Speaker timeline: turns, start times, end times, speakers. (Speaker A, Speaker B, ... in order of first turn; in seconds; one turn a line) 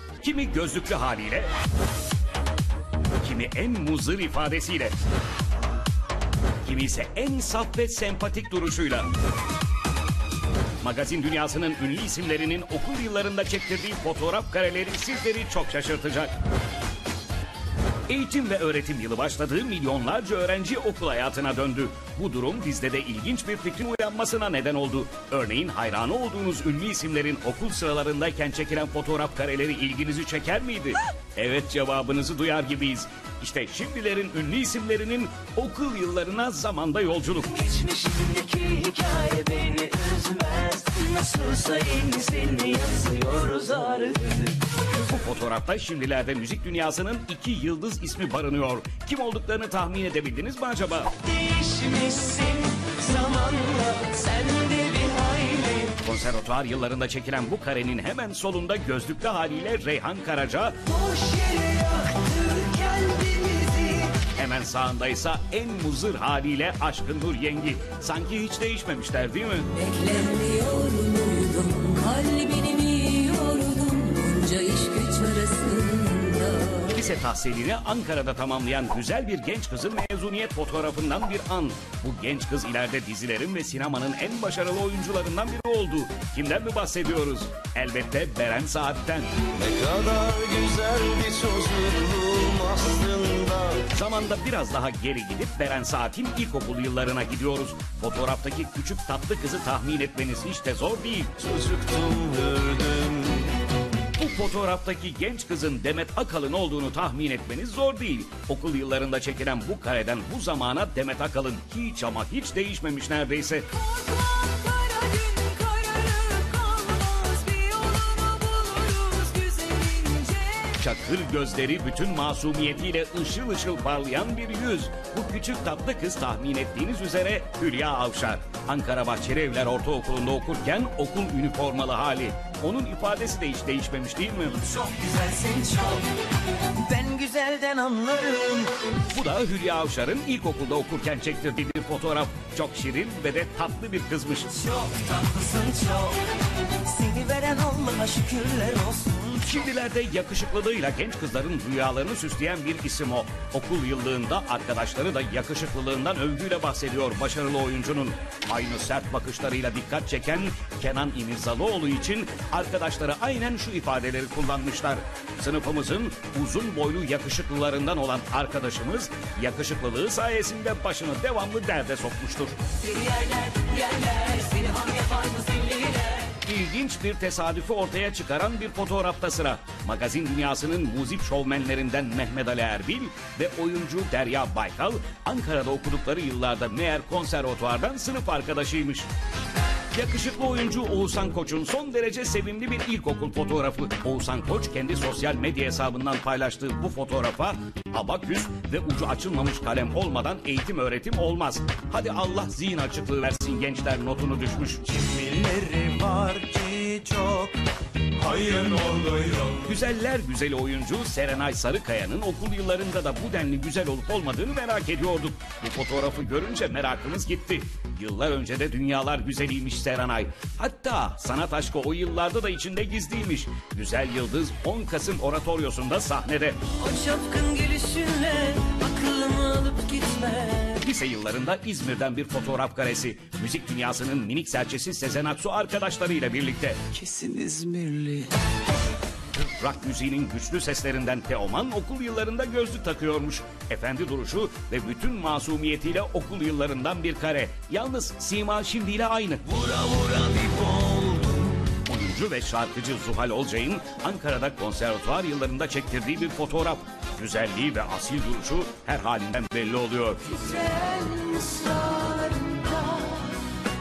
Speaker A: 0.2-1.5
Speaker A: 3.2-4.9
Speaker A: 6.6-9.1
Speaker A: 10.8-16.3
Speaker A: 18.1-37.6
Speaker B: 37.5-44.6
Speaker A: 45.0-51.1
Speaker B: 51.2-55.9
Speaker A: 56.0-60.8
Speaker B: 60.9-64.2
Speaker A: 64.2-69.7
Speaker B: 69.8-76.9
Speaker A: 76.9-89.3
Speaker C: 89.5-93.8
Speaker A: 93.9-101.3
Speaker C: 101.4-103.5
Speaker A: 104.2-113.7
Speaker B: 113.8-120.7
Speaker A: 120.7-134.8
Speaker B: 134.8-136.1
Speaker B: 136.8-138.7
Speaker A: 139.1-144.5
Speaker B: 144.6-146.2
Speaker B: 146.8-149.4
Speaker A: 149.4-172.6
Speaker B: 172.8-176.3
Speaker A: 176.3-189.1
Speaker A: 189.9-204.9
Speaker C: 204.9-207.6
Speaker C: 208.2-209.6
Speaker A: 209.5-226.6
Speaker B: 226.8-230.8
Speaker A: 230.8-236.8
Speaker B: 237.0-238.3
Speaker A: 239.3-249.5
Speaker C: 249.5-251.5
Speaker A: 251.8-260.4
Speaker B: 260.4-263.4